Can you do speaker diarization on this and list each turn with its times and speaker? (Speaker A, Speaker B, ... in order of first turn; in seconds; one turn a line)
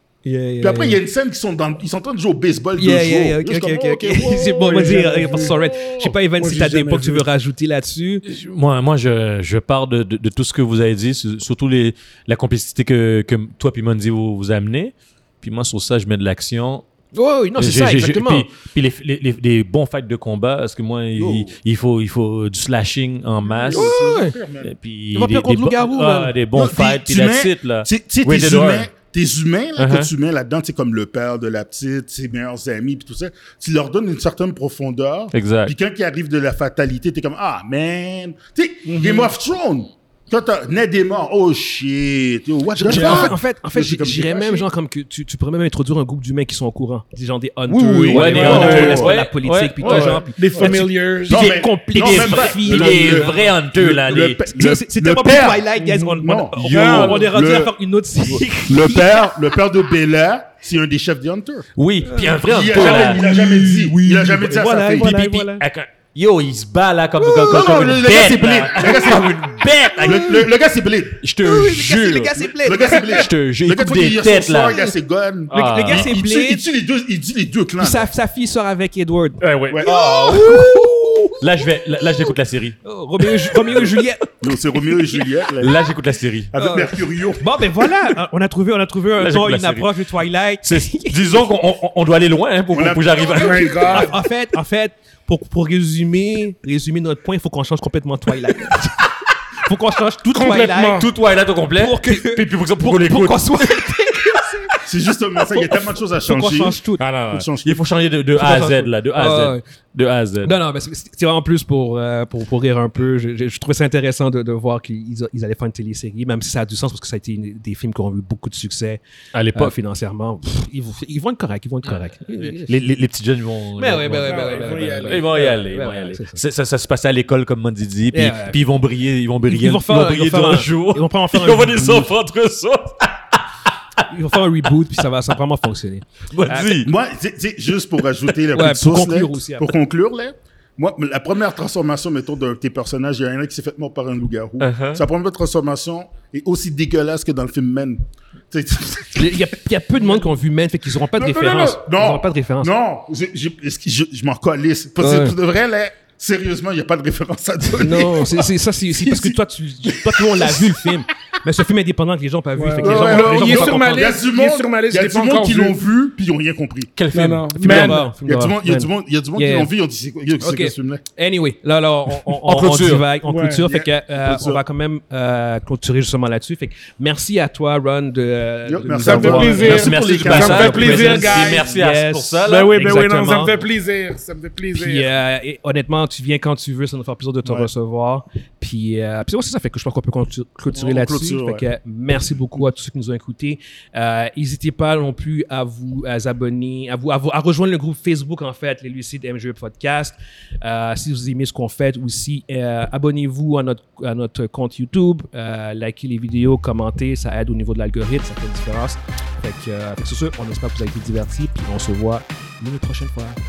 Speaker A: 0.2-1.0
Speaker B: 0.6-6.1
Speaker A: 2.8-8.2
Speaker C: 4.7-5.5
Speaker C: 6.3-7.2
Speaker D: 8.2-16.9
Speaker A: 17.1-18.5
Speaker D: 17.6-23.9
Speaker B: 21.1-21.5
Speaker B: 23.4-24.7
Speaker A: 23.7-24.4
Speaker D: 24.6-28.9
Speaker A: 25.1-26.3
Speaker B: 26.5-44.7
Speaker D: 29.8-30.1
Speaker D: 35.3-35.7
Speaker C: 38.8-39.3
Speaker A: 42.8-53.5
Speaker C: 42.9-43.3
Speaker B: 47.7-49.1
Speaker D: 48.1-50.2
Speaker C: 48.4-49.1
Speaker B: 49.8-57.7
Speaker C: 49.8-51.4
Speaker D: 51.3-54.4
Speaker A: 54.1-59.4
Speaker C: 55.8-56.2
Speaker D: 56.6-57.1
Speaker C: 56.7-57.2
Speaker B: 58.2-61.7
Speaker D: 61.8-63.3
Speaker A: 62.0-65.6
Speaker B: 62.4-65.4
Speaker D: 65.0-70.5
Speaker A: 67.2-70.4
Speaker B: 67.5-71.2
Speaker D: 71.2-74.8
Speaker A: 71.4-73.2
Speaker B: 72.5-78.1
Speaker D: 75.5-76.1
Speaker A: 75.5-76.6
Speaker A: 77.8-81.4
Speaker D: 79.4-79.9
Speaker B: 79.7-81.3
Speaker D: 81.4-82.8
Speaker A: 82.8-84.3
Speaker D: 83.5-83.9
Speaker B: 84.4-85.7
Speaker A: 84.9-85.1
Speaker D: 85.6-86.5
Speaker B: 86.5-87.9
Speaker A: 86.5-91.4
Speaker D: 89.2-89.9
Speaker D: 90.6-94.1
Speaker B: 92.7-94.1
Speaker C: 93.3-94.1
Speaker A: 93.8-101.1
Speaker C: 100.3-101.1
Speaker D: 101.0-104.0
Speaker A: 101.8-104.9
Speaker B: 104.8-106.8
Speaker A: 105.4-107.0
Speaker D: 107.0-110.5
Speaker B: 107.3-107.8
Speaker A: 108.3-109.6
Speaker A: 110.4-119.0
Speaker D: 119.3-119.7
Speaker A: 119.5-122.8
Speaker D: 121.9-133.4
Speaker A: 123.8-126.4
Speaker C: 124.2-125.6
Speaker A: 128.1-128.6
Speaker A: 129.4-132.1
Speaker A: 134.1-136.8
Speaker D: 136.3-136.9
Speaker B: 136.7-149.5
Speaker A: 138.5-139.7
Speaker D: 144.6-145.0
Speaker A: 149.2-152.7
Speaker B: 151.1-160.9
Speaker A: 155.0-155.3
Speaker A: 157.8-164.1
Speaker C: 162.6-165.8
Speaker B: 162.8-166.9
Speaker D: 166.9-167.9
Speaker C: 167.1-168.0
Speaker B: 167.6-171.0
Speaker A: 167.6-169.7
Speaker A: 170.4-179.9
Speaker D: 172.2-173.1
Speaker C: 173.2-173.7
Speaker B: 173.7-174.6
Speaker B: 178.7-181.4
Speaker C: 179.0-181.7
Speaker D: 179.6-183.5
Speaker A: 180.9-183.5
Speaker C: 182.4-185.1
Speaker A: 184.7-213.4
Speaker B: 187.4-187.7
Speaker B: 190.7-191.6